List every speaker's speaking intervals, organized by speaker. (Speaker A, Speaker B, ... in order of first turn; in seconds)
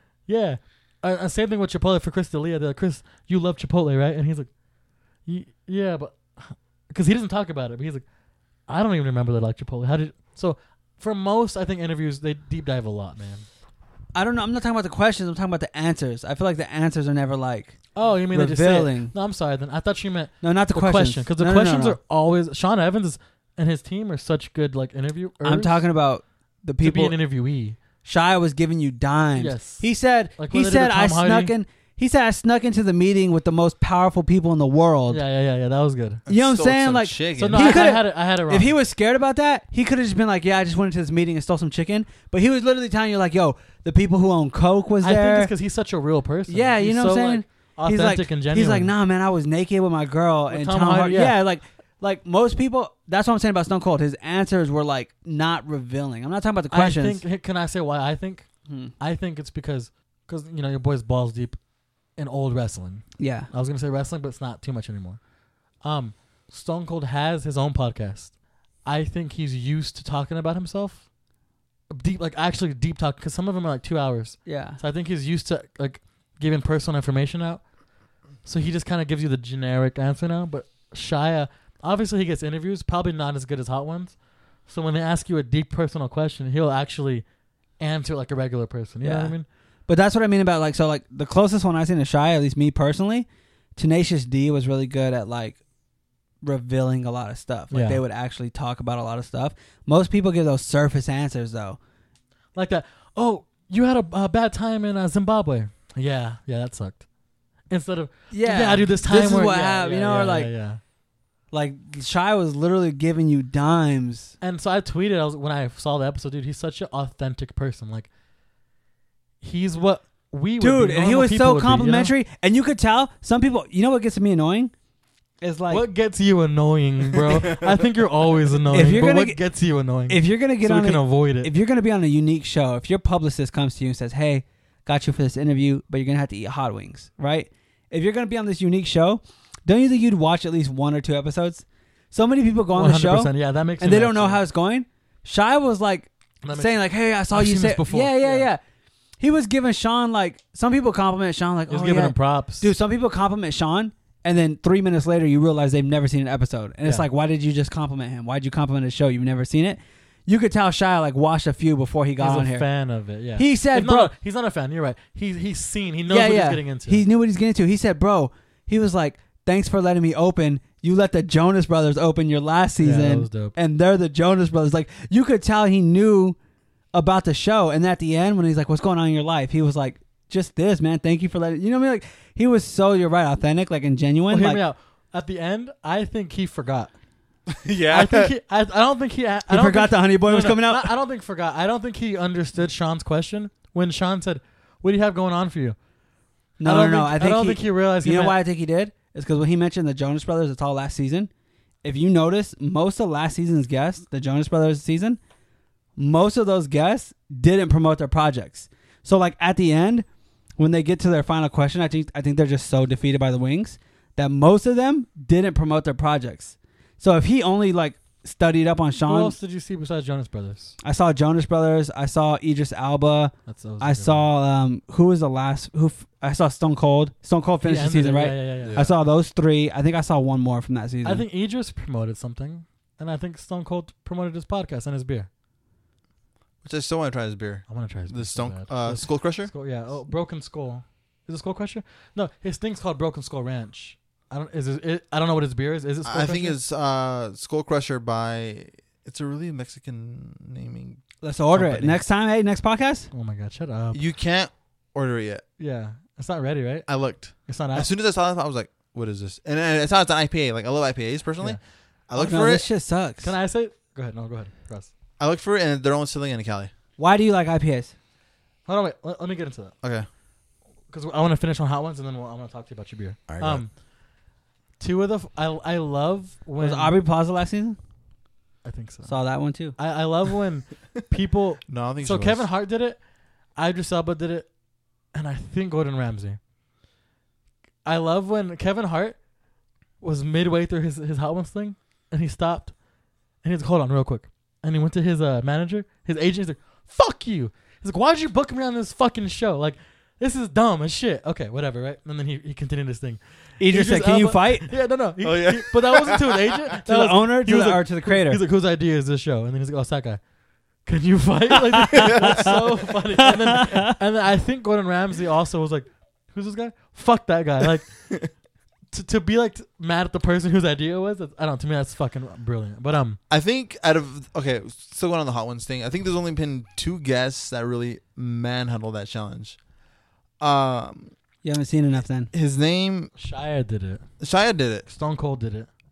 Speaker A: 0.3-4.5, 5.3-8.1, 8.7-13.5, 17.9-25.8, 26.8-27.8, 29.4-29.8, 30.4-31.5, 35.1-36.2, 37.4-38.8, 45.0-48.9, 50.5-51.4, 56.7-58.5, 59.0-61.6, 62.2-65.2, 65.8-68.3, 68.8-71.1, 71.9-77.6, 78.4-84.2, 84.7-87.2, 87.8-89.5, 97.7-98.0, 102.5-107.0, 107.7-110.8, 114.4-118.1, 119.4-122.1, 125.7-131.5, 142.7-144.4, 146.4-146.8, 147.3-148.5, 151.7-152.7, 162.2-167.0, 172.8-173.6, 184.3-186.9, 187.9-195.8, 196.7-198.4, 219.0-220.8, 223.5-224.3, 227.6-228.8, 231.1-235.3, 237.7-246.6, 251.5-252.0, 253.1-254.0, 255.6-256.9, 257.5-257.9, 263.2-264.9, 268.7-269.7, 270.9-273.7, 274.8-277.0, 278.6-279.1, 279.8-283.0, 283.6-284.5, 285.1-286.4, 287.9-289.2, 290.0-292.7, 293.4-310.2, 310.9-318.2, 318.9-323.2, 333.2-334.0, 334.9-335.7
Speaker B: 14.2-19.1, 20.4-22.0, 25.4-27.2, 28.0-35.2, 36.3-45.5, 46.5-57.2, 58.7-58.9, 63.2-63.5, 74.5-74.8, 89.0-89.3, 89.9-95.6, 96.4-101.8, 108.3-110.5, 111.5-114.3, 120.6-124.7, 125.4-125.8, 128.7-129.4, 130.1-148.6, 149.2-162.7, 163.4-164.1, 166.1-176.4, 176.9-184.6, 189.5-190.9, 196.6-201.3, 201.8-205.2, 206.0-210.1, 210.6-219.4, 220.8-231.2, 251.2-253.1, 262.2-263.3, 267.0-267.9, 276.6-277.8, 279.1-279.8, 303.6-304.7, 306.9-308.4, 311.9-312.6, 313.4-313.9, 331.4-332.3
Speaker C: 36.3-37.9, 127.2-127.9, 187.5-188.3, 228.6-229.0, 236.6-239.5, 246.1-251.0, 253.9-255.4, 256.9-262.6, 265.2-266.7, 273.3-273.6, 281.7-282.5, 305.2-306.8, 312.0-312.6, 323.3-329.6, 330.4-331.1, 332.3-333.1, 334.2-334.9